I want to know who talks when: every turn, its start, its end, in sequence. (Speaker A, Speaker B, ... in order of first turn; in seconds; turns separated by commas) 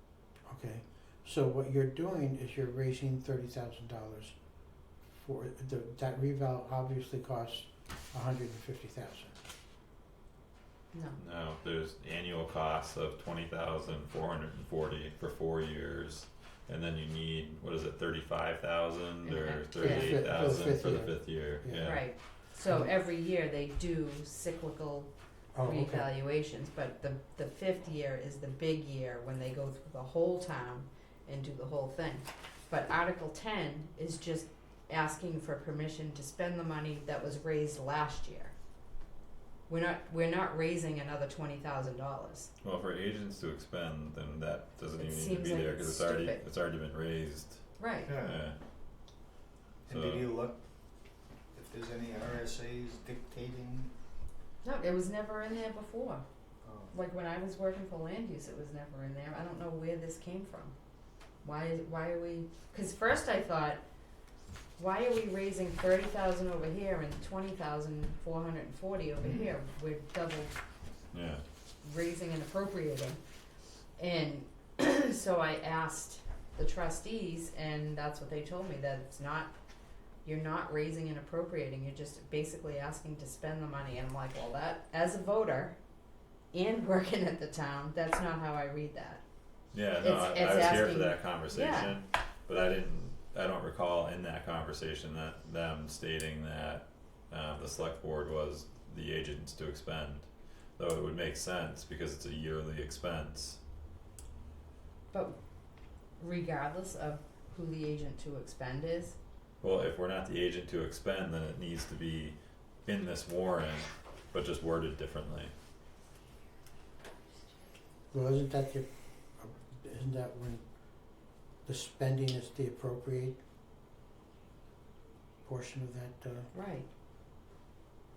Speaker A: 0.5-4.3, Speaker A: 5.2-9.4, Speaker B: 10.9-11.2, Speaker C: 11.2-22.1, Speaker B: 19.2-20.2, Speaker A: 19.8-22.0, Speaker B: 21.8-25.1, Speaker A: 25.5-26.1, Speaker B: 25.6-38.5, Speaker B: 39.7-42.5, Speaker C: 42.6-47.6, Speaker B: 45.0-46.4, Speaker B: 47.8-48.1, Speaker D: 48.0-48.5, Speaker C: 48.2-48.6, Speaker D: 49.9-50.6, Speaker C: 49.9-50.3, Speaker D: 51.5-53.9, Speaker B: 54.6-56.2, Speaker D: 56.6-56.9, Speaker B: 56.9-60.8, Speaker B: 61.4-63.8, Speaker B: 64.8-70.6, Speaker D: 69.2-69.5, Speaker C: 71.1-71.4, Speaker B: 71.8-73.2, Speaker B: 74.0-79.5, Speaker B: 80.2-85.8, Speaker B: 86.5-89.2, Speaker C: 89.7-103.6, Speaker B: 90.0-92.0, Speaker B: 105.1-105.4, Speaker B: 106.2-109.2, Speaker C: 109.6-115.5, Speaker A: 118.1-118.9, Speaker A: 119.4-120.6, Speaker A: 121.7-123.4, Speaker A: 125.4-126.5, Speaker B: 126.5-126.9